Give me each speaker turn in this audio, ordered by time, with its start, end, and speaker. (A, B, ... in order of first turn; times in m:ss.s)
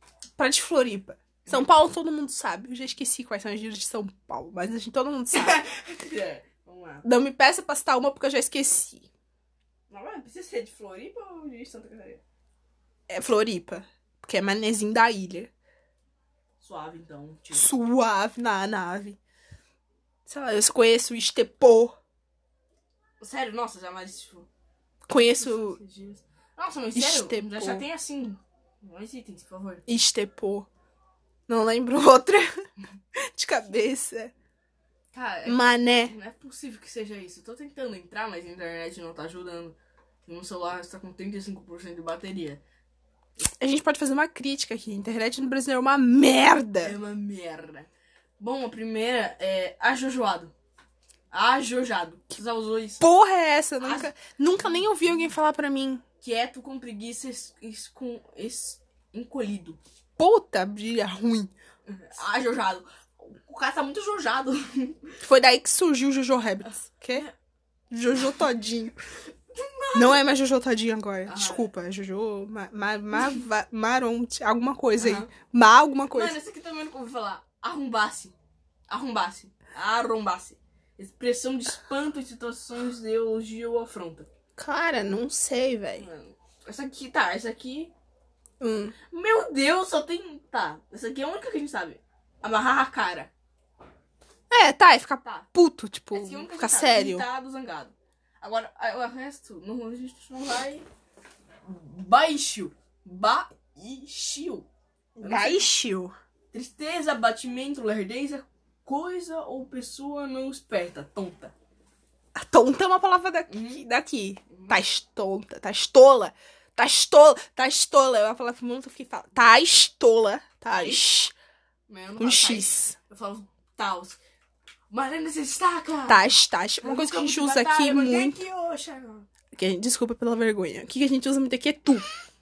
0:00.4-0:05.6 A
0:05.3-0:07.0 B
0:07.0-0:09.1 A
0:09.9-0:12.2 B
0:13.1-0:15.5 A
0:16.6-0:17.7 B
0:17.5-0:19.2 A
0:20.3-0:22.0 A
0:23.2-0:24.5 B
0:25.1-0:25.8 A
0:25.2-0:29.8 B
0:27.0-0:27.8 A
0:29.9-0:30.7 A
0:31.5-0:32.6 A
0:33.3-0:34.3 A
0:35.1-0:42.6 B
0:35.5-0:36.1 A
0:43.4-0:47.0 A
0:46.8-0:50.5 B
0:51.3-0:53.0 B
0:53.0-0:56.0 A
0:53.8-0:55.2 B
0:56.2-0:59.8 B
1:00.2-1:01.5 A
1:01.9-1:05.2 B
1:05.2-1:07.3 A
1:06.7-1:07.3 B
1:07.9-1:09.0 A
1:09.5-1:10.2 B
1:09.9-1:16.4 A
1:11.3-1:11.7 B
1:15.0-1:15.3 B
1:16.1-1:18.4 B
1:18.9-1:24.3 B
1:24.6-1:26.1 A
1:26.0-1:27.9 B
1:28.6-1:29.0 A
1:29.1-1:33.3 B
1:34.5-1:37.2 A
1:36.1-1:40.9 B
1:41.7-1:44.7 B
1:45.2-1:46.1 A
1:45.2-1:45.7 B
1:46.5-1:51.5 B
1:52.4-2:01.3 A
1:53.5-1:53.8 B
1:54.5-1:54.8 B
2:00.7-2:01.0 B
2:01.9-2:04.2 B
2:02.2-2:03.0 A
2:04.9-2:09.3 B
2:06.1-2:08.4 A
2:09.5-2:12.0 A